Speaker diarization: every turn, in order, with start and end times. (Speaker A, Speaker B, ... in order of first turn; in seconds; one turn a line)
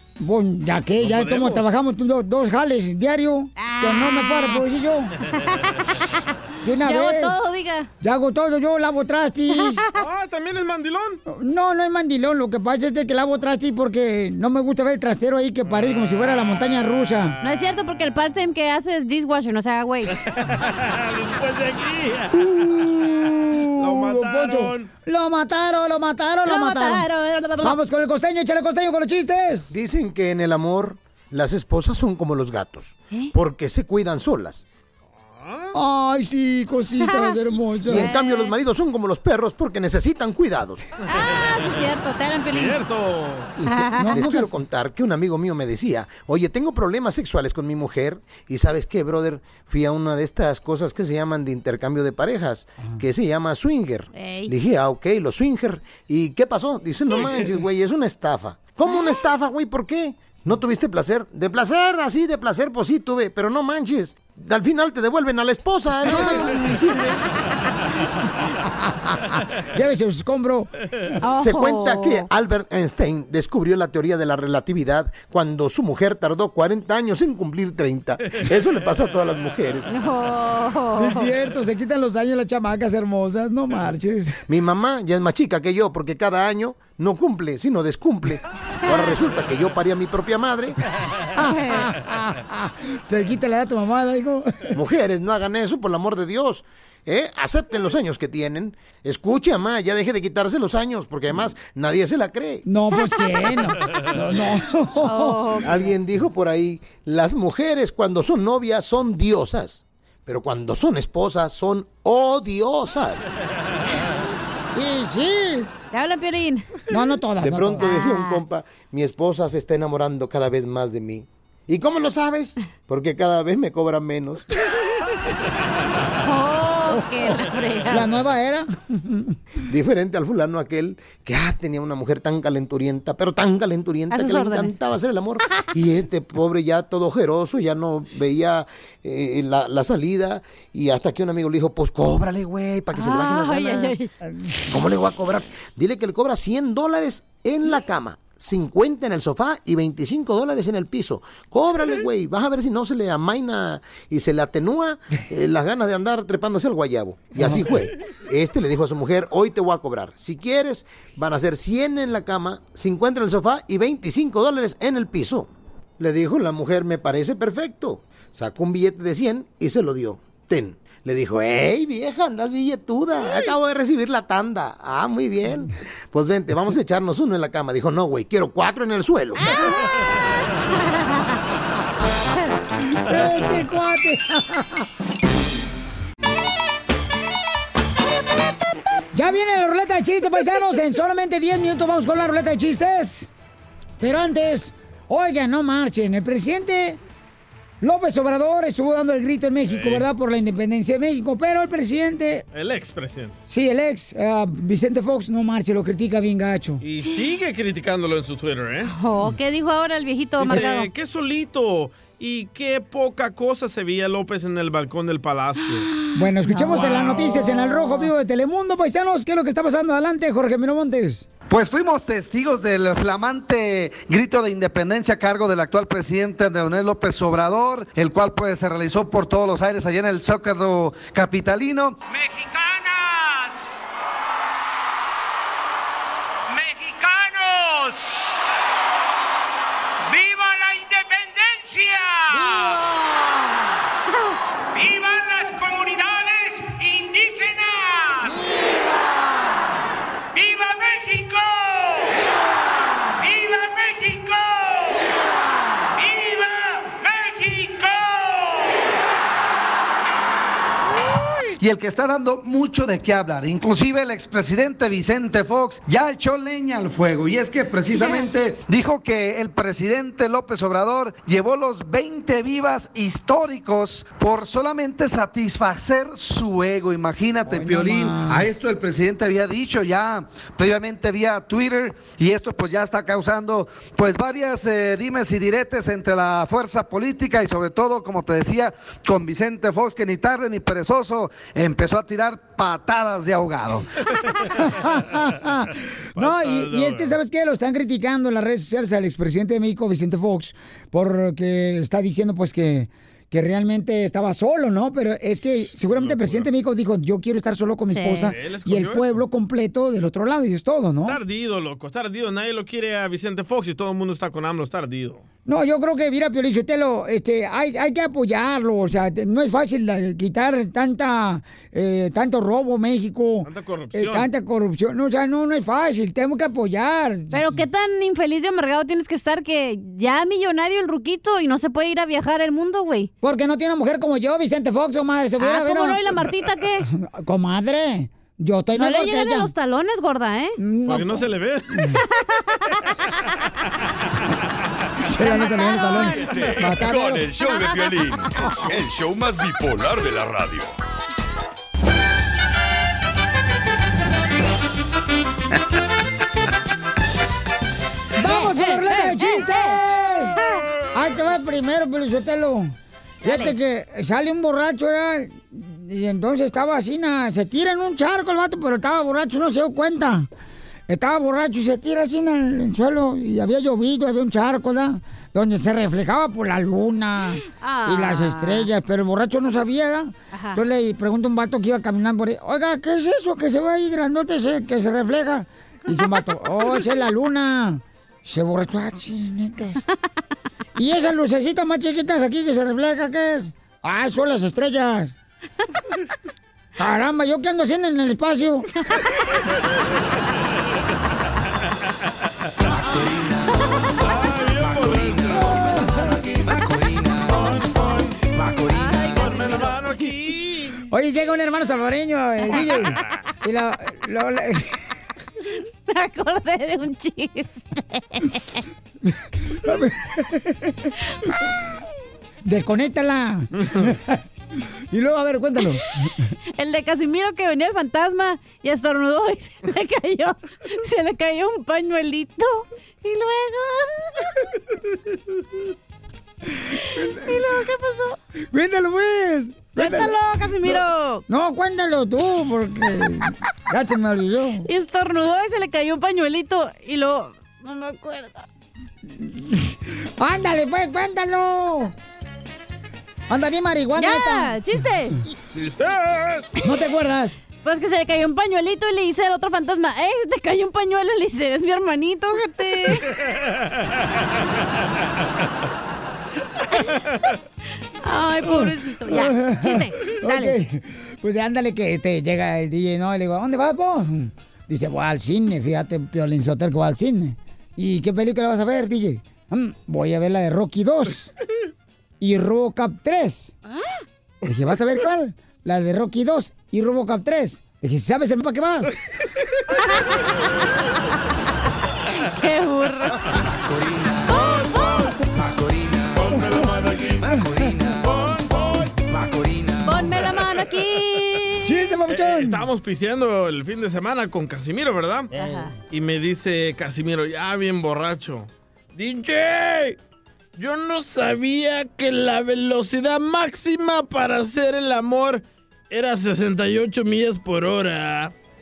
Speaker A: 0.2-5.1
Speaker B: 1.0-1.7
Speaker C: 3.5-4.6
Speaker C: 5.3-5.7
Speaker A: 6.6-7.3
Speaker C: 6.8-7.9
Speaker A: 8.0-9.8
Speaker C: 9.5-10.0
Speaker B: 9.9-11.2
Speaker A: 11.3-17.3
Speaker B: 15.6-18.5
Speaker C: 17.4-20.2
Speaker B: 20.1-22.4
Speaker A: 22.3-27.1
Speaker B: 23.8-24.9
Speaker C: 26.4-27.8
Speaker A: 27.6-29.7
Speaker D: 29.7-34.6
Speaker B: 35.3-35.7
Speaker A: 35.7-38.1
Speaker C: 37.0-37.3
Speaker D: 37.9-40.9
Speaker C: 37.9-38.5
Speaker C: 41.1-42.8
Speaker B: 41.1-41.8
Speaker B: 42.5-43.5
Speaker A: 43.6-44.5
Speaker C: 43.6-44.2
Speaker D: 44.1-67.1
Speaker C: 54.1-54.5
Speaker B: 57.1-57.5
Speaker A: 66.1-66.7
Speaker A: 68.7-70.7
Speaker C: 71.2-72.3
Speaker D: 71.4-79.9
Speaker B: 78.3-78.9
Speaker C: 79.9-81.3
Speaker A: 80.9-84.4
Speaker D: 84.5-90.8
Speaker C: 88.9-89.1
Speaker A: 91.3-94.7
Speaker C: 91.5-91.9
Speaker D: 94.7-102.6
Speaker A: 102.6-105.7
Speaker C: 105.0-105.9
Speaker D: 105.6-113.3
Speaker A: 114.7-115.7
Speaker C: 115.9-116.7
Speaker A: 116.9-117.9
Speaker D: 117.4-124.6
Speaker C: 117.8-118.4
Speaker C: 126.2-128.1
Speaker A: 127.9-129.4
Speaker D: 129.7-144.0
Speaker C: 134.1-134.8
Speaker C: 142.9-144.1
Speaker A: 144.2-144.5
Speaker D: 144.7-179.5
Speaker A: 157.4-157.6
Speaker A: 182.9-184.8
Speaker A: 189.1-193.3
Speaker A: 194.0-197.0
Speaker A: 197.8-202.4
Speaker B: 199.6-200.1
Speaker B: 202.5-203.3
Speaker A: 203.5-206.8
Speaker B: 206.8-208.9
Speaker C: 208.8-210.9
Speaker B: 210.4-215.9
Speaker C: 215.8-218.1
Speaker A: 216.1-221.3
Speaker B: 216.8-217.2
Speaker E: 221.5-232.0
Speaker F: 232.1-233.8
Speaker F: 236.5-238.4
Speaker F: 240.0-242.8
Speaker F: 244.7-248.4
Speaker F: 250.3-252.1
Speaker F: 253.2-255.0
Speaker F: 256.0-258.8
Speaker E: 261.6-293.8
Speaker A: 277.5-278.5
Speaker A: 294.5-311.2
Speaker B: 296.1-297.1
Speaker B: 305.7-306.5
Speaker C: 307.9-308.3
Speaker B: 308.2-309.2
Speaker B: 311.0-315.2
Speaker A: 315.4-327.5
Speaker B: 323.4-324.3
Speaker C: 327.3-333.1
Speaker A: 333.2-336.1
Speaker C: 335.1-336.9
Speaker A: 336.9-339.5
Speaker C: 338.7-340.6
Speaker A: 340.6-341.9
Speaker B: 340.9-341.7
Speaker C: 342.5-342.7
Speaker C: 345.1-346.5
Speaker A: 345.1-347.3
Speaker G: 346.1-350.7
Speaker C: 347.4-348.1
Speaker A: 358.2-360.4
Speaker C: 358.2-359.8
Speaker C: 360.4-360.6
Speaker A: 360.9-370.3
Speaker C: 363.2-363.5
Speaker A: 370.9-389.8
Speaker C: 377.4-378.7
Speaker C: 380.3-380.6
Speaker C: 385.9-386.2
Speaker A: 390.8-395.1
Speaker A: 396.8-398.7
Speaker B: 404.0-405.7
Speaker A: 405.4-406.0
Speaker B: 407.2-408.2
Speaker C: 408.6-409.8
Speaker B: 409.1-410.8
Speaker A: 410.9-414.8
Speaker C: 415.9-418.6
Speaker A: 419.6-420.9
Speaker A: 422.4-424.2
Speaker A: 424.9-425.8
Speaker C: 426.6-434.3
Speaker C: 436.8-438.2
Speaker A: 436.9-437.4
Speaker A: 438.5-440.2
Speaker C: 439.8-441.2
Speaker A: 441.3-444.7
Speaker C: 444.6-448.5
Speaker A: 449.1-451.9
Speaker A: 453.3-454.6
Speaker C: 453.9-455.2
Speaker B: 455.5-456.5
Speaker A: 456.6-457.4
Speaker C: 457.6-463.1
Speaker C: 466.7-467.2
Speaker C: 468.0-470.6
Speaker A: 468.5-481.3
Speaker A: 482.2-483.5
Speaker A: 484.4-488.9
Speaker C: 492.1-493.3
Speaker C: 494.3-495.0
Speaker B: 496.2-497.3
Speaker C: 499.8-501.7
Speaker A: 501.6-502.6
Speaker B: 502.1-505.3
Speaker A: 505.3-505.7
Speaker C: 505.3-505.7
Speaker B: 505.9-510.0
Speaker B: 510.6-518.3